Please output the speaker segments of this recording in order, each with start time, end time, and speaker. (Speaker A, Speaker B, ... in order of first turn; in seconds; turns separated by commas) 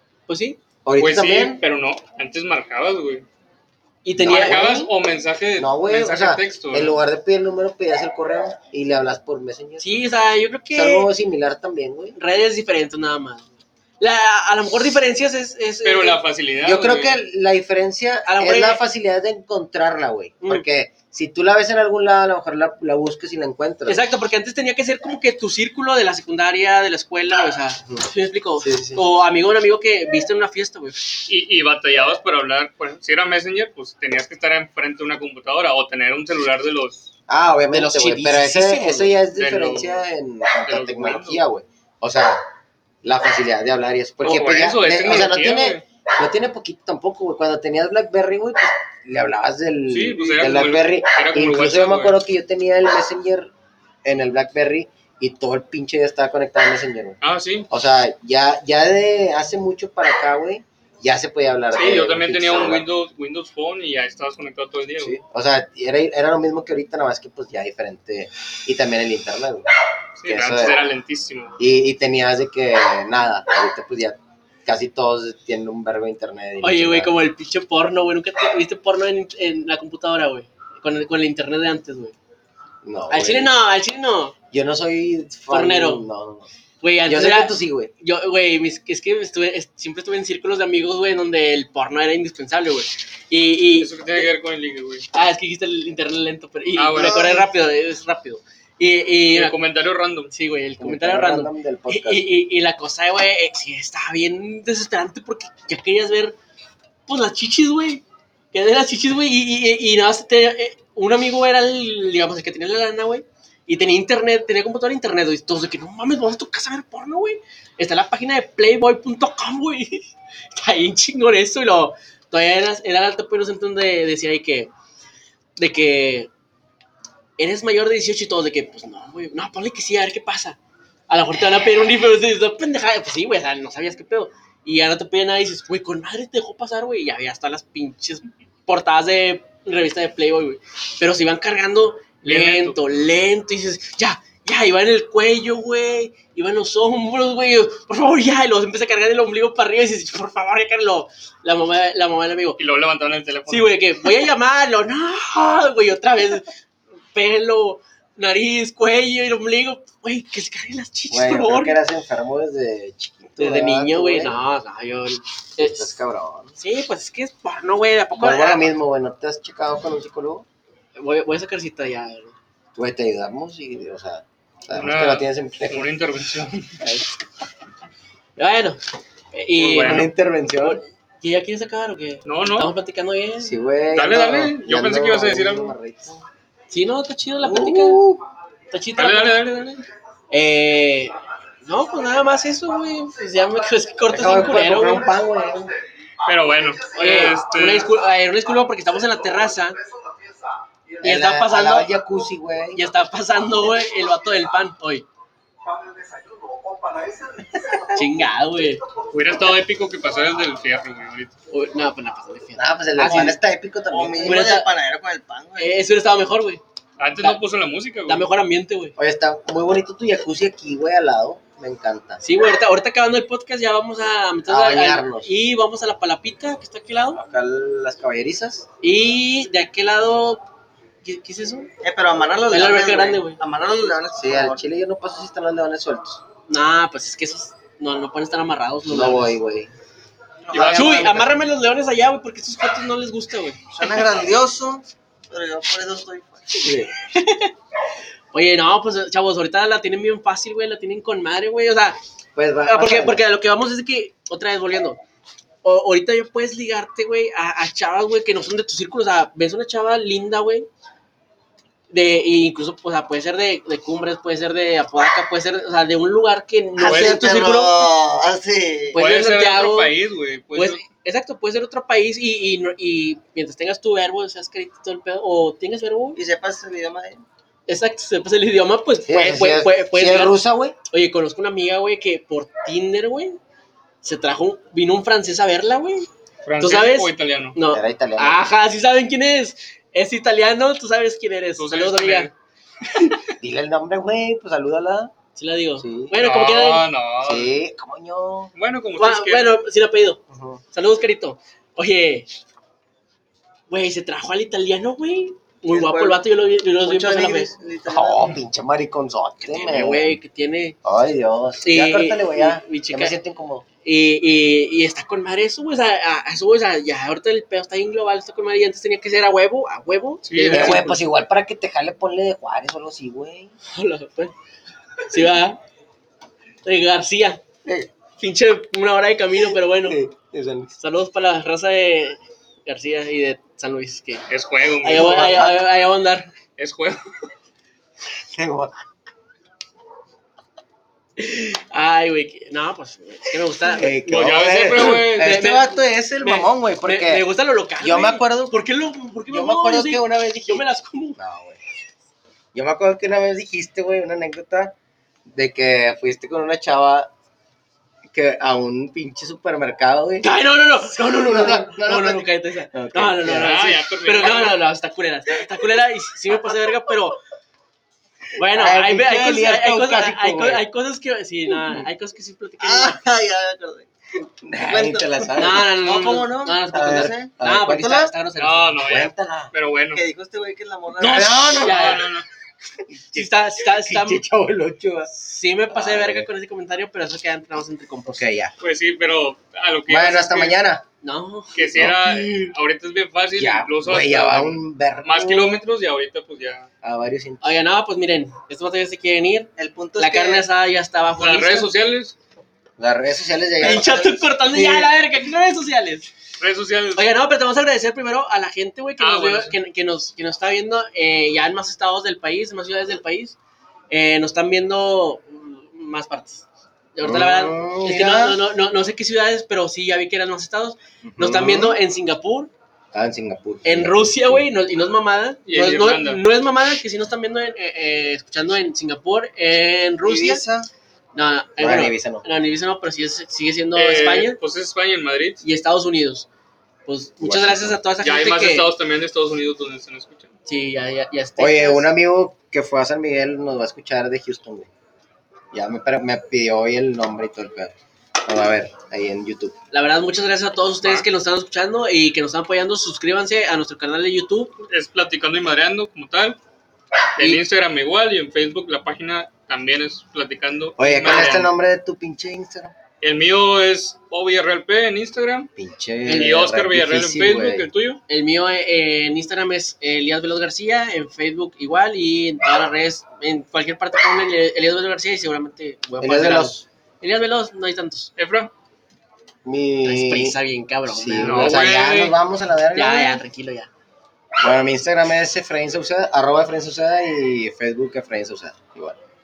Speaker A: 0.3-0.6, Speaker B: 0.8-1.6, Speaker C: 1.0-3.2, Speaker A: 4.0-4.7, Speaker B: 4.2-4.9, Speaker C: 4.2-7.0, Speaker B: 5.6-10.0, Speaker A: 9.8-11.1, Speaker B: 10.7-12.2, Speaker A: 12.1-16.2, Speaker C: 15.8-17.2, Speaker B: 16.6-24.0, Speaker A: 18.2-18.8, Speaker A: 23.9-31.1, Speaker B: 28.6-29.0, Speaker C: 31.2-37.1, Speaker B: 37.3-42.4, Speaker A: 37.7-39.2, Speaker C: 39.4-40.0, Speaker C: 40.7-41.4, Speaker B: 43.0-53.5, Speaker C: 44.2-45.8, Speaker C: 49.9-52.1, Speaker B: 54.0-57.2, Speaker C: 57.2-57.7, Speaker B: 57.7-62.8, Speaker C: 61.7-65.2, Speaker B: 65.0-69.6, Speaker C: 70.2-71.5, Speaker B: 70.2-70.8, Speaker B: 71.6-77.2, Speaker A: 76.6-82.2, Speaker B: 82.8-83.5, Speaker A: 83.1-84.3, Speaker B: 84.5-86.5, Speaker A: 85.5-86.1, Speaker A: 86.8-94.2, Speaker B: 87.0-87.9, Speaker C: 93.7-95.1, Speaker A: 95.1-99.6, Speaker C: 96.8-97.4, Speaker C: 99.3-100.3, Speaker A: 100.3-106.3, Speaker B: 100.8-102.3, Speaker A: 107.1-124.7, Speaker A: 125.6-126.3, Speaker A: 127.4-130.6, Speaker A: 131.1-152.6, Speaker C: 142.2-142.8, Speaker C: 152.6-153.9, Speaker A: 153.5-156.5, Speaker A: 157.1-161.8, Speaker B: 161.1-164.4, Speaker A: 163.3-166.0, Speaker B: 165.6-166.5, Speaker A: 166.6-168.7, Speaker B: 168.2-170.4, Speaker A: 170.9-172.3, Speaker B: 172.7-175.9, Speaker C: 174.7-176.8, Speaker A: 178.4-178.8, Speaker A: 179.3-183.6, Speaker C: 179.6-180.1, Speaker B: 179.8-180.8, Speaker C: 182.2-182.7, Speaker B: 183.4-186.2, Speaker C: 183.9-185.8, Speaker A: 186.7-188.0, Speaker B: 187.4-188.2, Speaker A: 188.7-189.6, Speaker C: 188.9-189.8, Speaker A: 190.3-195.1, Speaker B: 194.1-195.7, Speaker C: 196.2-197.9, Speaker A: 196.9-199.8, Speaker A: 201.0-201.9, Speaker B: 201.0-202.8, Speaker A: 202.8-205.1, Speaker A: 207.9-208.8, Speaker C: 209.1-211.3, Speaker A: 211.5-213.4, Speaker B: 212.6-214.4, Speaker D: 213.9-215.8, Speaker A: 214.2-214.7, Speaker A: 215.6-216.6, Speaker C: 217.0-218.3, Speaker A: 218.1-218.9, Speaker B: 219.0-222.2, Speaker A: 222.2-227.2, Speaker B: 224.5-225.3, Speaker B: 227.1-228.7, Speaker A: 228.8-230.4, Speaker A: 231.0-231.7, Speaker D: 231.8-234.6, Speaker A: 232.5-233.4, Speaker B: 234.2-236.2, Speaker A: 236.5-239.3, Speaker B: 238.9-239.7, Speaker D: 240.4-241.3, Speaker C: 240.5-241.3, Speaker A: 240.7-244.0, Speaker D: 243.7-246.5, Speaker B: 246.6-246.9, Speaker A: 247.0-247.5, Speaker A: 248.3-252.0, Speaker B: 252.3-253.2, Speaker A: 252.6-255.0, Speaker A: 255.6-260.7, Speaker A: 261.9-267.9, Speaker D: 266.8-269.0, Speaker C: 266.9-267.2, Speaker A: 268.9-269.9, Speaker C: 268.9-270.8, Speaker A: 270.5-276.2, Speaker D: 276.1-277.2, Speaker A: 277.7-280.3, Speaker B: 279.1-280.8, Speaker A: 280.9-283.4, Speaker A: 284.0-286.1, Speaker C: 286.4-287.6, Speaker A: 286.6-292.3, Speaker B: 287.7-288.5, Speaker C: 291.6-292.3, Speaker B: 293.4-295.1, Speaker A: 295.4-296.9, Speaker B: 295.8-296.1, Speaker C: 296.2-297.5, Speaker B: 297.2-298.5, Speaker C: 298.6-299.5, Speaker A: 299.0-300.2, Speaker B: 300.3-300.6, Speaker A: 300.7-302.3, Speaker A: 303.7-307.5, Speaker D: 305.7-306.2, Speaker D: 306.8-308.3, Speaker B: 307.9-310.2, Speaker A: 309.4-310.8, Speaker B: 310.8-313.6, Speaker A: 311.6-313.1, Speaker A: 313.8-321.0, Speaker C: 320.2-320.8, Speaker B: 320.5-323.5, Speaker A: 323.7-324.3, Speaker A: 325.1-325.6, Speaker A: 326.6-327.4, Speaker A: 328.2-330.0, Speaker B: 329.4-330.7, Speaker A: 330.8-334.3, Speaker C: 334.3-335.5, Speaker A: 334.8-336.3, Speaker B: 334.9-335.6, Speaker C: 336.6-337.0, Speaker B: 338.2-338.8, Speaker A: 341.2-351.2, Speaker B: 343.7-347.2, Speaker C: 344.1-345.4, Speaker B: 347.8-348.6, Speaker B: 349.3-350.6, Speaker B: 351.2-351.6, Speaker B: 352.5-354.7, Speaker B: 355.3-357.1, Speaker B: 358.1-363.5, Speaker A: 360.2-367.2, Speaker C: 363.2-364.6, Speaker A: 368.3-373.0, Speaker B: 368.4-370.6, Speaker D: 372.6-373.9, Speaker B: 374.4-375.7, Speaker D: 374.6-377.3, Speaker A: 375.4-378.8, Speaker B: 376.7-378.1, Speaker C: 378.4-380.0, Speaker B: 378.9-379.5, Speaker D: 379.9-381.4, Speaker A: 381.0-382.1, Speaker B: 381.0-382.1, Speaker C: 381.3-382.3, Speaker B: 382.9-385.1, Speaker A: 383.1-384.2, Speaker A: 385.1-388.3, Speaker B: 385.7-386.3, Speaker B: 388.1-388.5, Speaker C: 388.6-390.6, Speaker B: 389.9-390.8, Speaker A: 391.0-392.5, Speaker C: 391.5-396.7, Speaker B: 393.3-395.6, Speaker B: 396.8-397.4, Speaker A: 397.4-401.7, Speaker D: 399.6-400.4, Speaker C: 401.2-402.1, Speaker B: 402.8-404.9, Speaker A: 403.6-406.1, Speaker D: 403.6-404.8, Speaker C: 406.4-407.1, Speaker A: 406.9-413.4, Speaker C: 409.0-409.6, Speaker A: 413.9-422.5, Speaker B: 417.0-418.4, Speaker B: 421.0-421.8, Speaker B: 422.9-424.5, Speaker A: 423.6-430.4, Speaker C: 425.4-426.2, Speaker D: 430.0-430.7, Speaker A: 431.1-434.4, Speaker B: 431.6-432.2, Speaker C: 433.7-435.4, Speaker A: 435.4-436.3, Speaker A: 436.9-438.7, Speaker B: 437.2-437.8, Speaker C: 438.0-440.3, Speaker A: 440.4-441.9, Speaker B: 441.4-444.7, Speaker B: 445.5-449.6, Speaker A: 449.7-454.6, Speaker C: 454.7-456.4, Speaker C: 457.2-461.5, Speaker B: 460.8-462.7, Speaker C: 463.0-465.5, Speaker B: 465.6-467.7, Speaker C: 466.1-468.0, Speaker A: 468.1-478.1, Speaker B: 476.0-476.6, Speaker C: 478.2-478.5, Speaker B: 479.4-480.4, Speaker A: 479.8-481.6, Speaker B: 480.9-483.2, Speaker C: 481.2-482.1, Speaker A: 482.7-483.7, Speaker B: 484.4-489.0